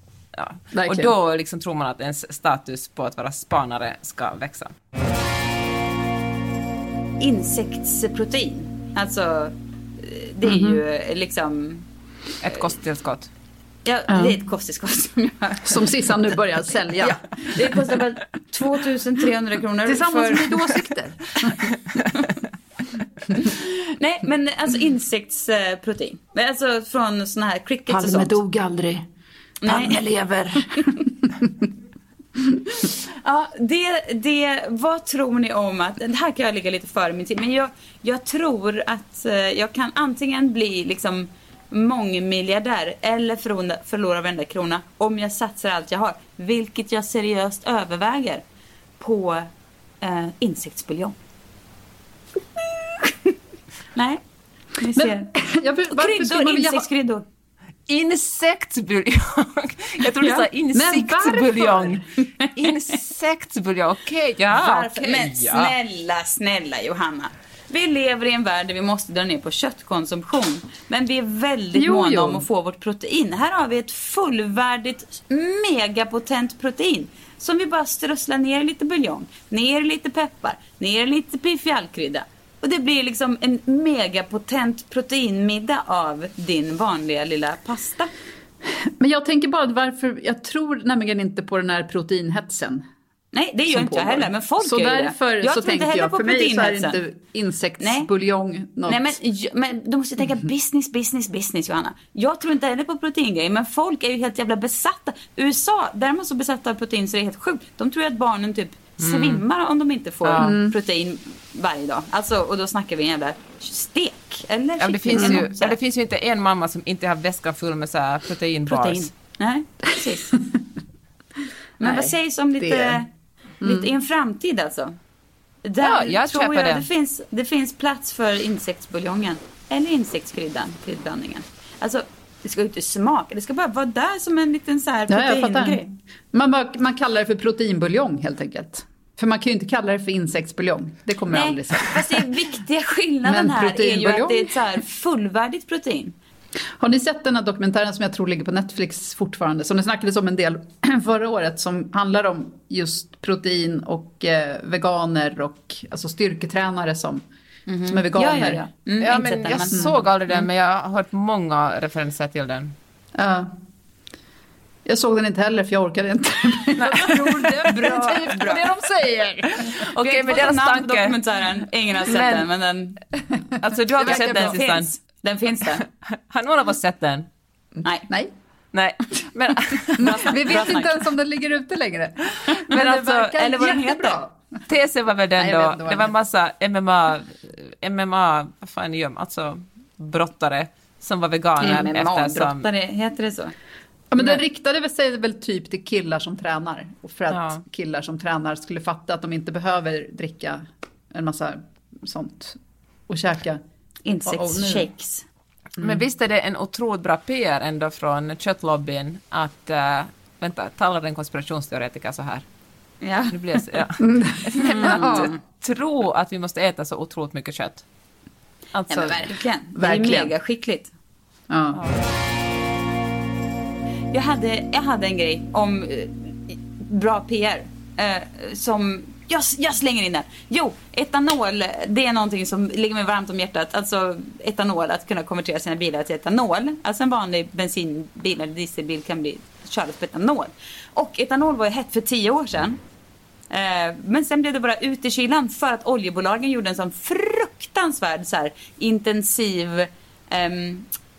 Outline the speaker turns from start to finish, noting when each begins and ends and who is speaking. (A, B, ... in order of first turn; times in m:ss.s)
0:00.3-0:04.7 A
0:00.7-0:01.1 B
0:07.2-0:11.8 C
0:10.4-0:10.8 B
0:12.4-0:13.3 A
0:13.8-0:15.8 C
0:14.1-0:14.4 B
0:15.6-0:17.2 B
0:17.0-0:20.5 C
0:19.8-0:21.7 B
0:23.3-0:28.4 C
0:27.9-0:29.0 B
0:29.6-0:30.0 C
0:29.6-0:31.6 B
0:32.8-0:48.4 C
0:49.0-0:49.5 C
0:50.0-0:51.2 C
0:53.0-0:53.3 C
0:53.9-0:54.2 C
0:54.8-0:55.3 C
0:54.9-0:56.9 B
0:55.9-0:57.2 C
0:57.9-1:05.7 A
1:00.7-1:02.0 B
1:04.5-1:28.1 C
1:11.7-1:12.4 B
1:28.8-1:32.8 B
1:33.3-1:37.0 C
1:33.7-1:39.2 B
1:37.8-1:38.1 C
1:38.9-1:55.8 C
1:49.0-1:49.4 A
1:50.2-1:50.5 A
1:50.4-1:50.8 B
1:54.8-1:59.1 A
1:55.2-1:55.4 B
1:58.7-2:00.4 C
2:01.8-2:03.1 C
2:02.6-2:03.0 B
2:03.6-2:03.9 B
2:03.6-2:05.0 C
2:05.6-2:15.8 C
2:05.8-2:06.8 A
2:15.1-2:22.2 B
2:21.3-2:26.2 C
2:23.2-2:24.6 B
2:26.8-2:37.2 B
2:37.7-2:40.4 C
2:37.9-2:38.6 B
2:39.0-2:42.7 A
2:43.1-2:43.5 B
2:44.8-2:49.6 B
2:46.8-2:48.9 A
2:47.7-2:48.6 C
2:49.5-2:51.2 A
2:49.7-2:53.0 C
2:52.0-2:52.5 A
2:53.6-2:55.0 A
2:54.0-2:54.6 B
2:54.0-2:55.8 C
2:55.6-2:57.3 A
2:58.7-3:00.5 A
3:00.0-3:00.9 C
3:00.0-3:04.6 B
3:02.5-3:04.0 A
3:03.4-3:04.2 C
3:04.7-3:12.7 A
3:05.4-3:06.1 B
3:11.6-3:13.5 C
3:14.1-3:23.6 B
3:17.3-3:17.6 A
3:24.0-3:25.2 C
3:24.2-3:24.9 B
3:25.8-3:32.4 A
3:33.0-3:33.8 C
3:33.3-3:37.8 A
3:34.0-3:35.3 B
3:34.6-3:35.4 C
3:38.7-3:39.4 A
3:38.9-3:40.9 C
3:39.8-3:40.3 B
3:41.5-3:41.8 B
3:41.7-3:42.0 A
3:44.1-4:02.8 C
4:03.5-4:10.9 C